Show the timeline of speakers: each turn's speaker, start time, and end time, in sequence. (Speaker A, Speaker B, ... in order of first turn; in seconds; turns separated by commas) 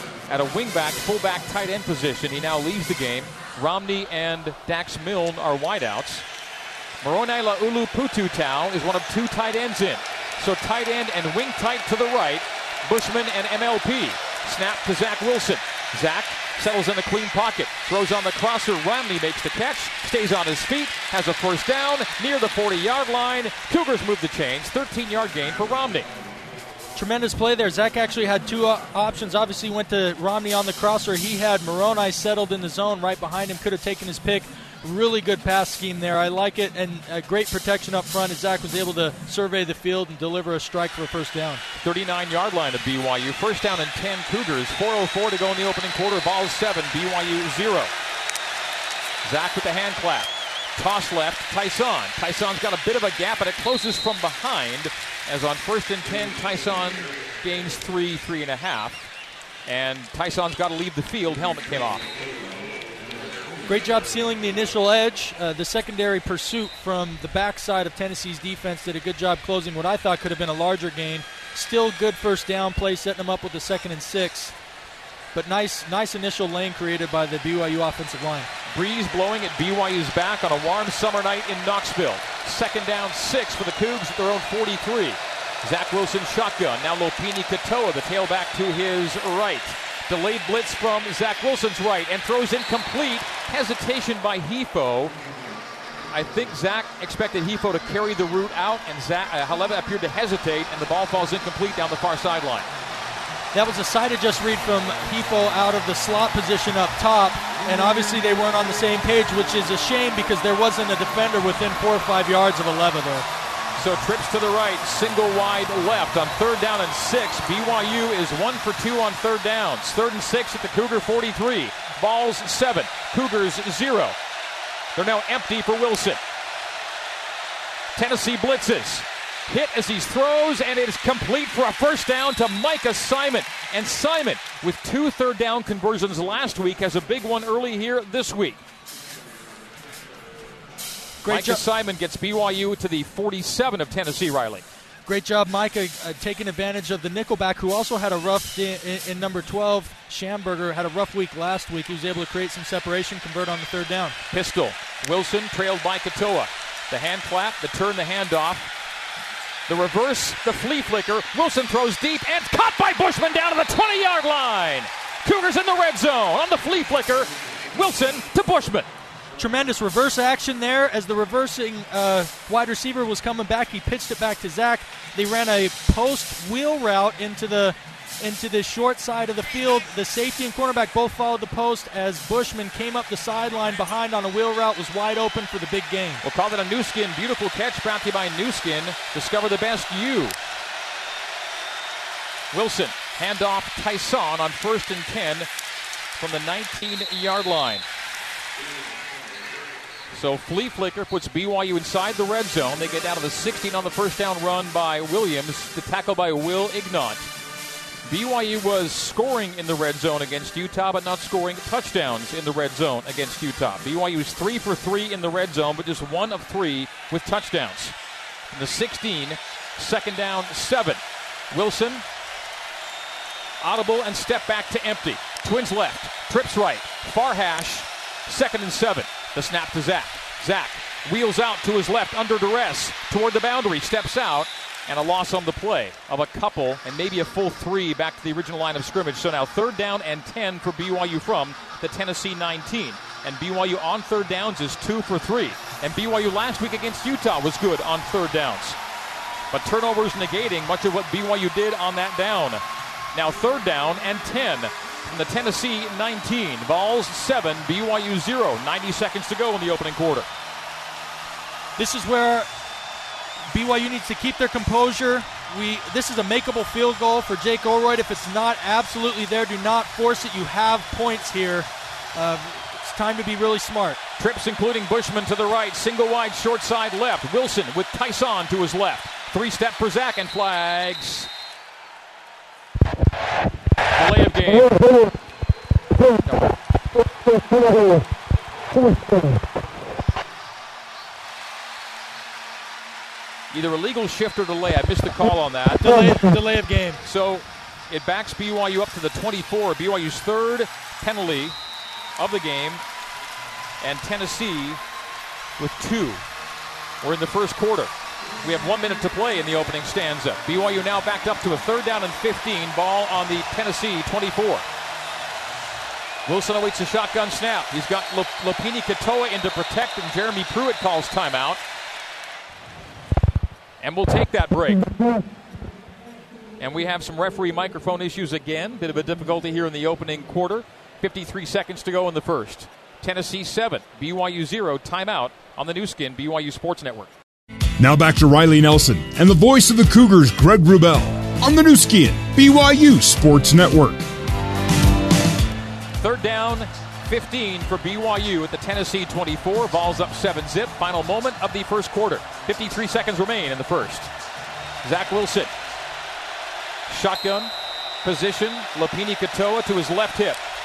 Speaker A: 0.3-6.3, Speaker A: 7.0-26.1, Speaker B: 26.9-41.6, Speaker A: 41.8-47.9, Speaker A: 49.2-59.1, Speaker A: 59.7-62.1, Speaker B: 63.7-74.5, Speaker B: 75.3-78.5, Speaker A: 78.7-95.2, Speaker A: 96.1-102.7, Speaker B: 103.5-113.3, Speaker A: 113.8-124.2, Speaker A: 125.0-126.2, Speaker A: 128.0-138.6, Speaker B: 141.2-141.6, Speaker A: 141.3-144.7, Speaker B: 145.1-154.2, Speaker A: 154.3-158.7, Speaker A: 159.7-168.9, Speaker B: 169.4-186.2, Speaker A: 186.2-190.4, Speaker A: 192.5-195.5, Speaker A: 196.2-197.9, Speaker A: 200.1-207.3, Speaker A: 208.1-218.0, Speaker A: 218.5-222.0, Speaker A: 223.6-248.8, Speaker A: 249.5-252.6, Speaker A: 253.1-260.3, Speaker B: 261.8-262.5, Speaker B: 263.5-274.0, Speaker A: 274.2-281.3, Speaker A: 283.9-284.7, Speaker A: 286.2-286.5, Speaker A: 293.5-295.9, Speaker B: 295.8-297.0, Speaker A: 297.0-301.6, Speaker A: 302.2-302.8, Speaker A: 303.8-304.8, Speaker A: 305.6-306.2, Speaker A: 307.0-307.9, Speaker A: 308.4-314.6, Speaker A: 316.3-321.6, Speaker A: 323.8-324.9, Speaker A: 326.6-337.1, Speaker C: 337.8-344.1, Speaker A: 346.0-354.1, Speaker A: 354.8-355.5, Speaker A: 356.9-357.5, Speaker A: 358.0-360.4